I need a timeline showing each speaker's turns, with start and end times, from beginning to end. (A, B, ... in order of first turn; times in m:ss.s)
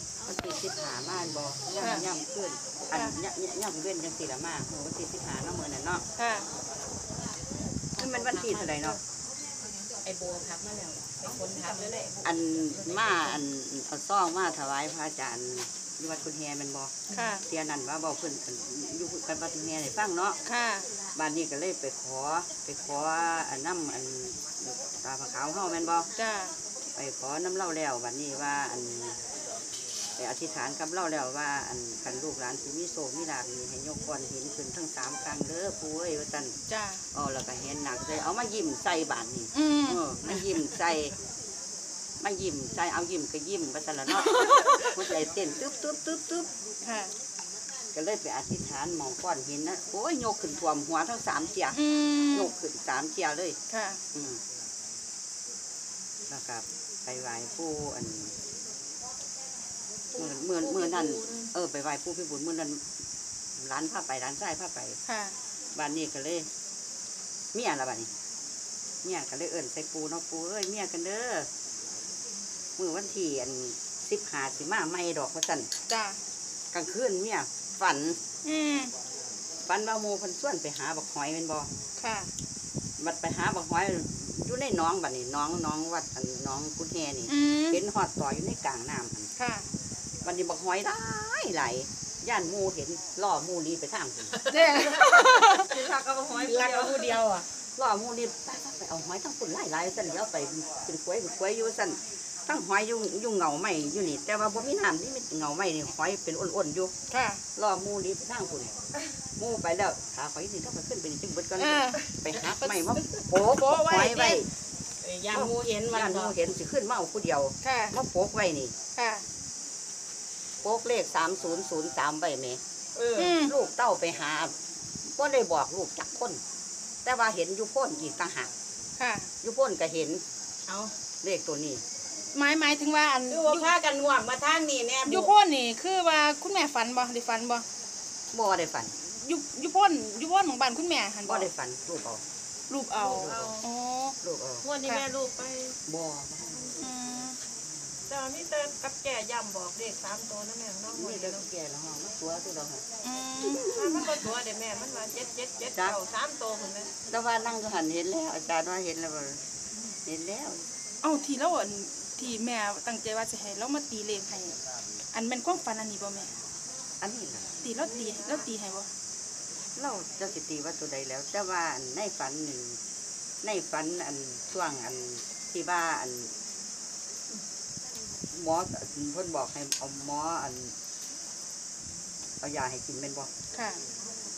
0:00.3-0:06.0 A
0:01.8-0:02.0 B
0:06.2-0:06.5 B
0:08.0-0:09.0 C
0:08.0-0:09.0 A
0:10.1-0:12.2 C
0:11.5-0:11.8 D
0:12.2-0:16.9 A
0:13.0-0:13.3 C
0:17.1-0:17.4 B
0:17.4-0:20.4 A
0:20.5-0:20.9 B
0:21.2-0:26.1 A
0:26.2-0:26.5 B
0:27.0-0:29.2 A
0:30.2-0:36.6 A
0:36.7-0:37.0 B
0:37.1-0:41.2 A
0:39.5-0:40.4 B
0:42.2-0:46.5 A
0:44.2-0:44.9 B
0:46.8-0:47.1 B
0:48.0-0:53.6 A
0:51.7-0:52.5 B
0:53.7-0:54.0 B
0:54.1-0:54.4 A
0:56.3-0:58.3 A
1:00.2-1:02.8 A
1:03.6-1:05.0 A
1:05.1-1:05.4 B
1:05.8-1:06.5 A
1:07.5-1:08.1 A
1:09.0-1:11.5 A
1:12.8-1:15.7 A
1:15.9-1:16.2 B
1:16.7-1:18.2 A
1:18.4-1:18.9 B
1:19.7-1:21.7 A
1:22.0-1:22.3 B
1:23.0-1:29.3 A
1:27.3-1:27.8 B
1:29.4-1:29.7 B
1:30.2-1:34.4 A
1:34.5-1:35.8 B
1:35.6-1:37.2 A
1:36.4-1:37.4 C
1:37.8-1:46.9 A
1:47.1-1:47.4 B
1:47.6-1:48.7 A
1:49.4-1:54.5 A
1:51.6-1:54.5 B
1:55.0-1:56.3 C
1:55.3-1:58.7 A
1:57.6-1:58.0 B
1:59.0-1:59.2 B
2:00.6-2:02.6 A
2:03.0-2:03.3 C
2:03.2-2:03.5 B
2:03.4-2:04.5 A
2:05.1-2:06.4 A
2:07.0-2:08.5 A
2:09.0-2:09.3 B
2:09.4-2:10.2 A
2:11.2-2:11.8 A
2:12.3-2:13.7 B
2:13.3-2:15.3 C
2:15.1-2:17.6 B
2:18.3-2:19.0 A
2:19.2-2:21.5 B
2:21.2-2:22.2 A
2:22.7-2:24.2 B
2:23.0-2:23.6 A
2:23.2-2:23.6 D
2:24.2-2:24.7 A
2:24.6-2:25.8 D
2:25.9-2:26.8 A
2:26.8-2:27.4 B
2:28.1-2:31.5 D
2:30.9-2:32.8 A
2:33.0-2:34.2 B
2:33.4-2:34.3 A
2:33.7-2:36.9 D
2:35.7-2:36.0 A
2:37.1-2:39.4 A
2:40.1-2:40.6 A
2:41.0-2:44.6 B
2:45.1-2:46.3 B
2:47.0-2:47.5 A
2:47.6-2:48.9 B
2:49.8-2:52.8 A
2:53.4-2:56.3 A
2:58.3-3:00.7 A
3:02.4-3:03.3 A
3:03.5-3:03.8 B